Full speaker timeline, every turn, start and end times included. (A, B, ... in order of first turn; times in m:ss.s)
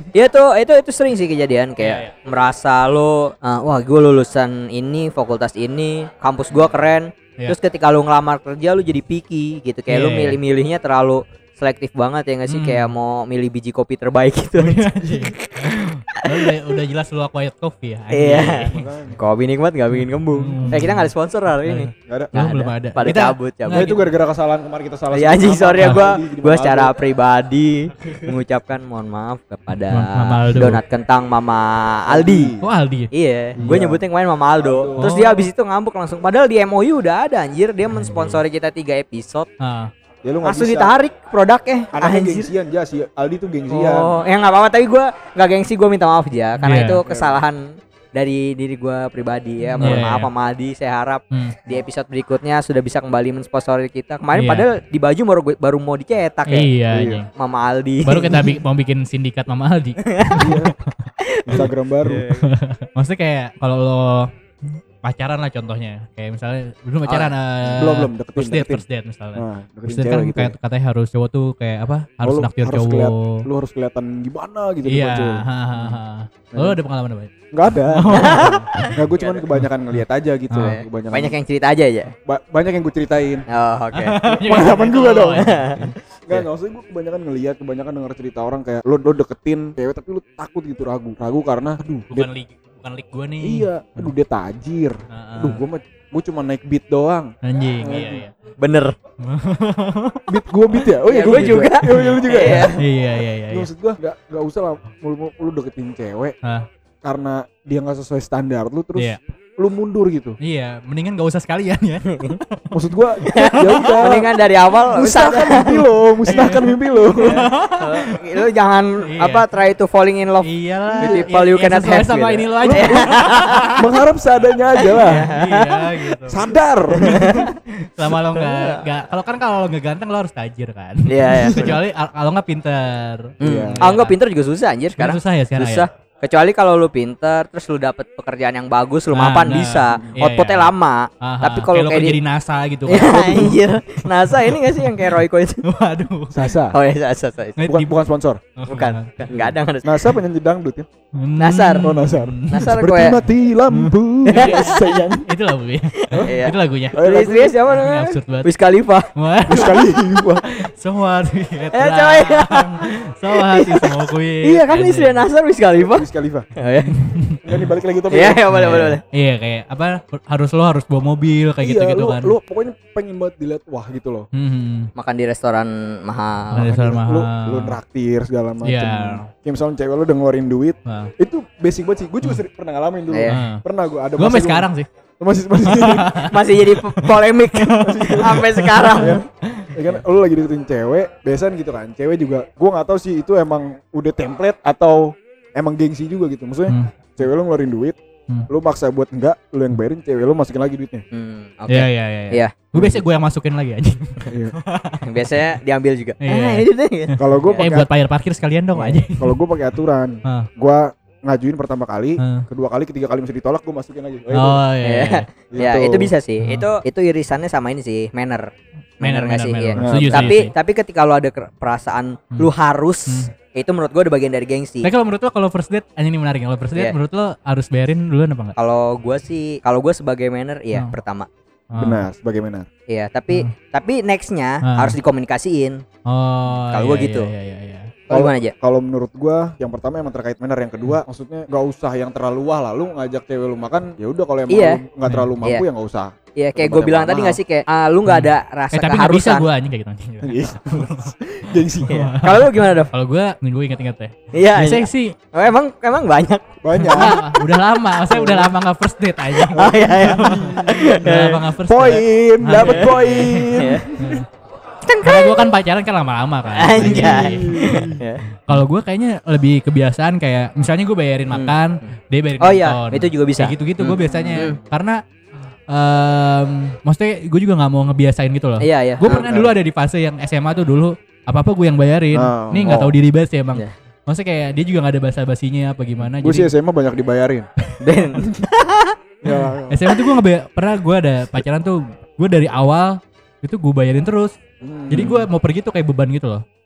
0:00.1-0:16.7 A
0:01.8-0:02.1 B
0:09.9-0:10.4 B
0:12.5-0:12.9 B
0:14.6-0:18.9 B
0:18.1-0:23.9 A
0:18.7-0:19.2 C
0:20.0-0:21.1 B
0:21.6-0:24.0 B
0:22.1-0:22.3 C
0:23.7-0:26.9 C
0:25.1-0:32.5 A
0:29.9-0:30.8 B
0:32.1-0:32.7 C
0:32.6-0:33.7 B
0:33.1-0:39.5 A
0:33.6-0:34.0 C
0:34.6-0:35.1 C
0:35.0-0:35.5 B
0:37.9-0:38.4 B
0:39.6-0:39.9 B
0:40.2-0:40.9 C
0:40.4-0:42.5 A
0:41.9-0:44.2 C
0:43.7-0:56.7 A
0:46.6-0:47.0 B
0:47.0-0:47.4 C
0:49.8-0:50.3 B
0:49.8-0:50.0 C
0:54.3-0:54.6 B
0:56.5-0:57.3 B
0:56.9-0:57.2 C
0:57.3-0:58.6 A
0:58.0-1:01.1 B
1:00.0-1:00.6 A
1:00.4-1:00.7 C
1:01.2-1:02.5 A
1:01.5-1:02.2 C
1:02.3-1:13.4 B
1:07.1-1:07.3 A
1:07.8-1:08.8 C
1:09.4-1:10.6 C
1:12.2-1:16.0 C
1:14.8-1:19.0 B
1:17.5-1:21.4 C
1:18.1-1:19.4 A
1:20.5-1:20.8 B
1:20.6-1:22.1 A
1:22.2-1:23.4 C
1:23.5-1:24.2 A
1:23.9-1:26.4 B
1:24.2-1:25.5 C
1:25.3-1:25.9 A
1:26.3-1:32.3 C
1:32.1-1:34.1 B
1:33.4-1:38.2 C
1:35.1-1:35.6 B
1:37.4-1:38.3 B
1:38.6-1:38.9 A
1:39.2-1:40.2 B
1:40.3-1:42.8 C
1:41.0-1:42.8 A
1:41.2-1:43.7 B
1:43.5-1:46.3 C
1:47.0-1:50.4 C
1:50.4-1:52.7 B
1:52.1-1:52.4 A
1:52.7-1:54.2 C
1:53.2-1:56.4 A
1:53.5-1:54.1 B
1:54.9-1:57.4 C
1:56.3-1:58.0 B
1:57.2-2:03.8 A
1:59.1-1:59.4 B
2:00.4-2:03.8 B
2:01.0-2:01.2 C
2:02.6-2:03.1 C
2:03.7-2:05.3 C
2:04.5-2:06.4 B
2:04.8-2:06.1 A
2:06.2-2:07.5 C
2:06.9-2:07.5 A
2:07.0-2:14.2 B
2:08.3-2:08.8 A
2:11.0-2:11.8 A
2:11.4-2:11.8 C
2:13.4-2:22.2 A
2:13.4-2:13.8 C
2:15.0-2:15.8 B
2:19.1-2:26.5 B
2:22.9-2:25.6 A
2:26.3-2:26.8 C
2:26.7-2:27.7 A
2:27.6-2:27.9 B
2:27.6-2:28.4 C
2:28.6-2:29.3 B
2:28.7-2:30.1 A
2:29.3-2:30.9 C
2:31.2-2:32.7 B
2:31.4-2:32.0 A
2:31.8-2:35.3 C
2:32.5-2:33.2 A
2:33.7-2:37.0 B
2:34.3-2:34.8 A
2:36.0-2:39.1 A
2:36.1-2:36.4 C
2:36.9-2:37.6 C
2:37.7-2:38.5 B
2:39.2-2:45.2 B
2:39.5-2:40.4 C
2:41.7-2:47.0 A
2:45.8-2:46.5 C
2:46.9-2:47.4 B
2:47.4-2:48.8 C
2:48.1-2:49.0 A
2:48.5-2:52.3 B
2:51.6-2:54.3 C
2:54.3-2:54.9 B
2:55.0-2:56.7 A
2:56.5-2:57.8 B
2:56.6-3:04.7 C
2:58.6-2:59.3 B
3:00.8-3:01.1 B
3:03.1-3:03.4 A
3:03.3-3:03.6 B
3:04.2-3:04.9 B
3:05.2-3:06.2 C
3:05.6-3:09.8 B
3:06.2-3:09.2 A
3:07.8-3:18.0 C
3:18.5-3:21.0 C
3:21.1-3:22.5 A
3:21.7-3:25.0 B
3:22.7-3:23.0 C
3:24.3-3:24.6 C
3:25.0-3:27.6 A
3:26.2-3:29.4 B
3:27.2-3:27.9 C
3:28.7-3:29.0 A
3:29.2-3:34.6 C
3:32.2-3:32.4 B
3:34.3-3:35.2 B
3:34.8-3:38.5 A
3:35.5-3:36.1 C
3:36.4-3:36.7 B
3:39.0-3:44.9 A
3:39.0-3:40.5 B
3:39.8-3:40.3 C
3:44.8-3:48.5 B
3:48.6-3:51.3 A
3:51.7-3:52.0 B
3:51.8-3:52.7 C
3:52.9-3:55.8 A
3:54.6-3:55.0 B
3:56.0-3:57.9 B
3:56.7-3:57.3 A
3:58.1-4:07.4 C
3:58.1-3:58.5 A
4:04.5-4:04.8 A
4:06.4-4:09.5 A
4:08.1-4:15.1 B
4:10.2-4:12.1 C
4:11.8-4:12.9 A
4:14.3-4:17.1 A
4:16.6-4:17.2 C
4:16.9-4:24.3 B
4:18.1-4:18.5 C
4:19.3-4:21.4 A
4:20.0-4:20.9 C
4:21.6-4:24.2 C
4:22.5-4:23.9 A
4:24.8-4:25.5 A
4:25.0-4:35.0 B
4:26.5-4:28.2 A
4:26.8-4:28.0 C
4:32.4-4:34.6 A
4:34.0-4:34.5 C
4:35.7-4:46.5 B
4:38.6-4:39.2 A
4:39.1-4:39.5 C
4:42.1-4:42.9 C
4:46.0-4:47.4 C
4:47.8-4:48.9 A
4:49.2-4:49.9 C
4:49.2-4:54.3 B
4:54.6-4:55.3 C
4:54.9-4:56.4 B